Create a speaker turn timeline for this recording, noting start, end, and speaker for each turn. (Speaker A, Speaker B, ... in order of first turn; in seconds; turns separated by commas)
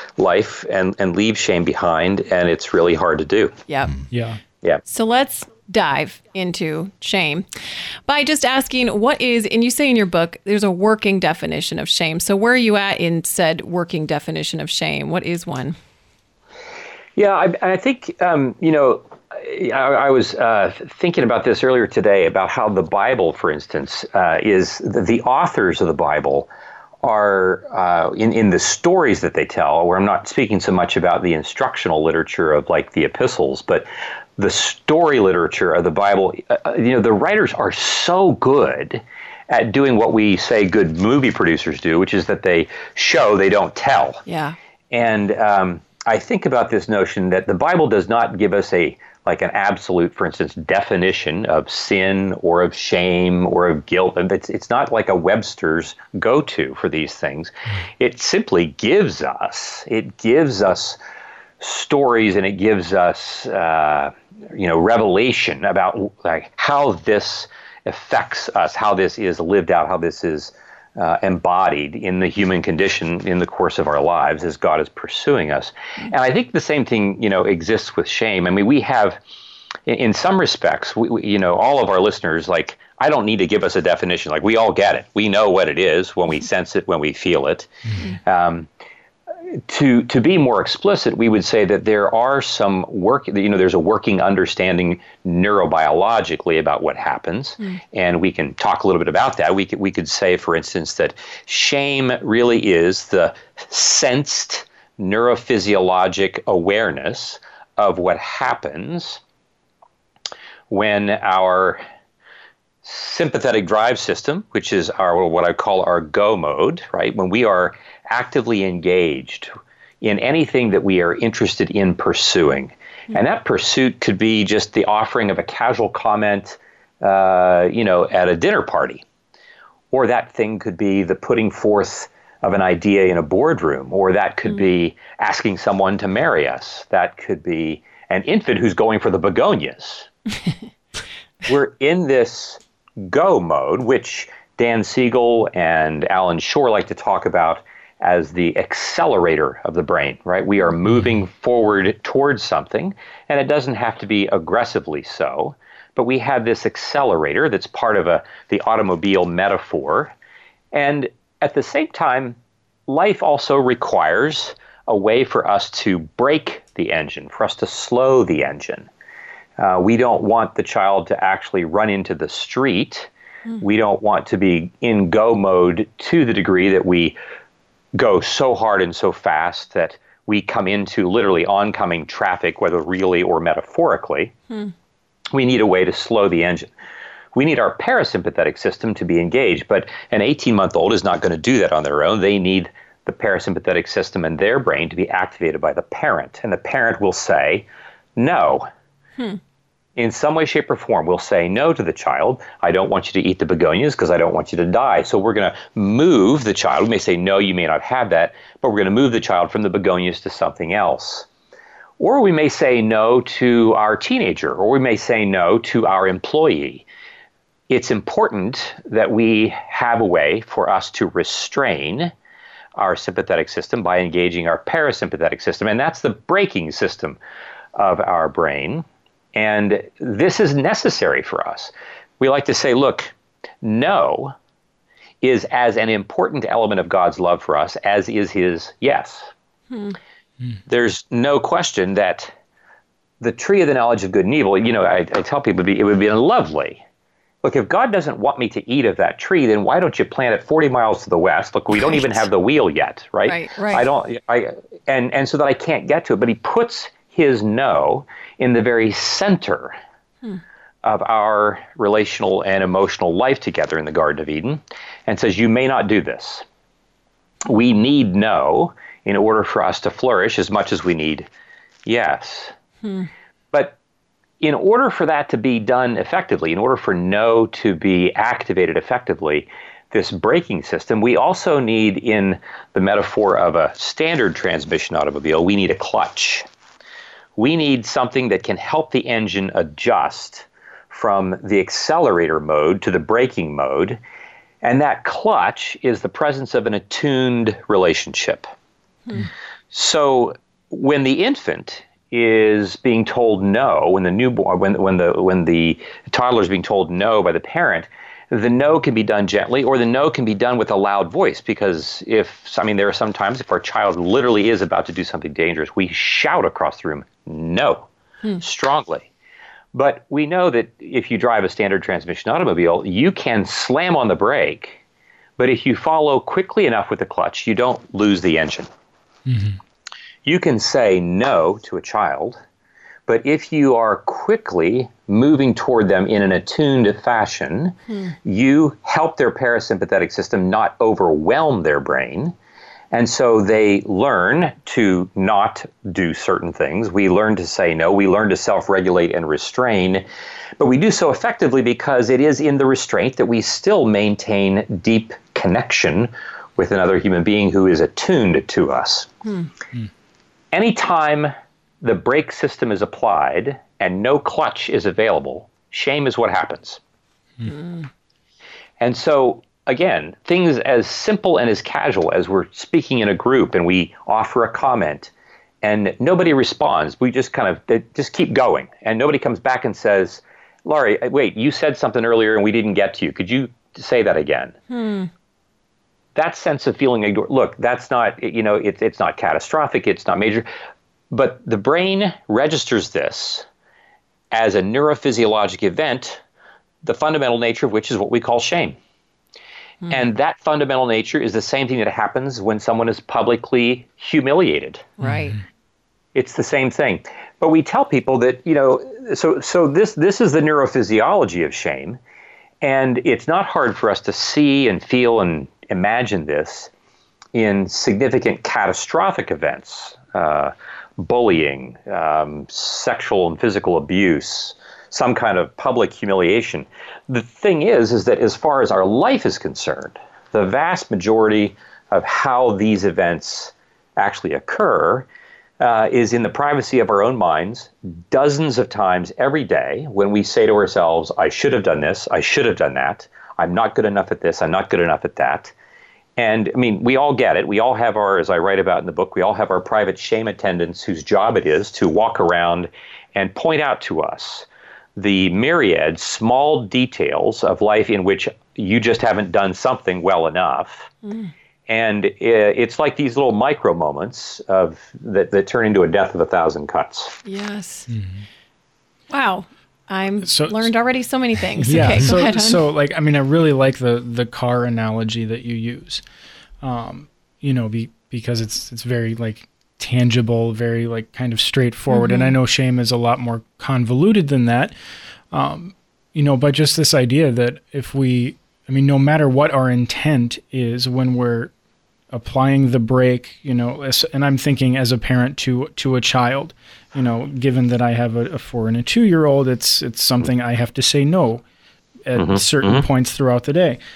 Speaker A: 0.2-3.6, Speaker B: 3.7-3.9, Speaker C: 4.1-4.4, Speaker B: 4.9-7.5, Speaker B: 8.1-15.8, Speaker A: 17.1-26.5, Speaker A: 27.0-44.2, Speaker B: 44.2-44.5, Speaker A: 44.9-61.0, Speaker A: 61.6-79.2, Speaker A: 79.9-88.7, Speaker A: 89.5-109.2, Speaker A: 110.7-111.8, Speaker A: 112.8-119.5, Speaker A: 120.0-129.0, Speaker A: 129.9-140.1, Speaker A: 141.4-160.1, Speaker A: 160.7-162.3, Speaker A: 162.9-168.9, Speaker A: 169.6-177.2, Speaker A: 177.9-184.3, Speaker A: 185.3-186.7, Speaker A: 187.3-198.7, Speaker A: 199.9-211.3, Speaker A: 212.0-216.8, Speaker A: 217.7-222.1, Speaker A: 222.8-227.2, Speaker A: 227.8-234.3, Speaker A: 235.2-239.3, Speaker B: 239.7-240.0, Speaker A: 240.7-242.3, Speaker A: 243.2-246.8, Speaker A: 247.4-259.8, Speaker B: 251.9-252.2, Speaker B: 253.2-253.8, Speaker A: 260.8-266.4, Speaker A: 267.4-271.3, Speaker A: 271.9-272.5, Speaker B: 272.8-273.1, Speaker A: 274.4-286.4, Speaker A: 287.4-294.0, Speaker A: 294.6-298.5, Speaker A: 299.7-317.9, Speaker A: 318.4-319.1, Speaker A: 319.7-324.8, Speaker A: 325.4-328.7, Speaker C: 329.3-329.6, Speaker A: 330.2-332.4, Speaker A: 333.1-342.3, Speaker B: 337.9-338.1, Speaker A: 342.9-350.0, Speaker A: 350.6-359.1, Speaker A: 360.5-366.8, Speaker B: 367.4-367.9, Speaker A: 368.8-375.1, Speaker A: 375.6-384.5, Speaker B: 384.7-385.1, Speaker A: 386.1-390.5, Speaker A: 391.1-393.4, Speaker A: 394.3-396.2, Speaker A: 396.8-398.8, Speaker A: 399.9-404.9, Speaker B: 405.0-405.4, Speaker A: 406.1-412.0, Speaker A: 412.6-416.7, Speaker A: 417.3-435.1, Speaker A: 435.6-445.5, Speaker A: 446.2-460.9, Speaker B: 461.0-461.3, Speaker A: 461.7-467.1, Speaker B: 467.2-467.9, Speaker C: 467.9-468.2, Speaker B: 469.1-472.6, Speaker C: 470.3-470.7, Speaker C: 471.6-476.0, Speaker C: 476.6-484.7, Speaker B: 481.9-482.3, Speaker C: 485.3-491.5, Speaker C: 492.1-501.4, Speaker C: 502.0-503.8, Speaker A: 502.1-502.9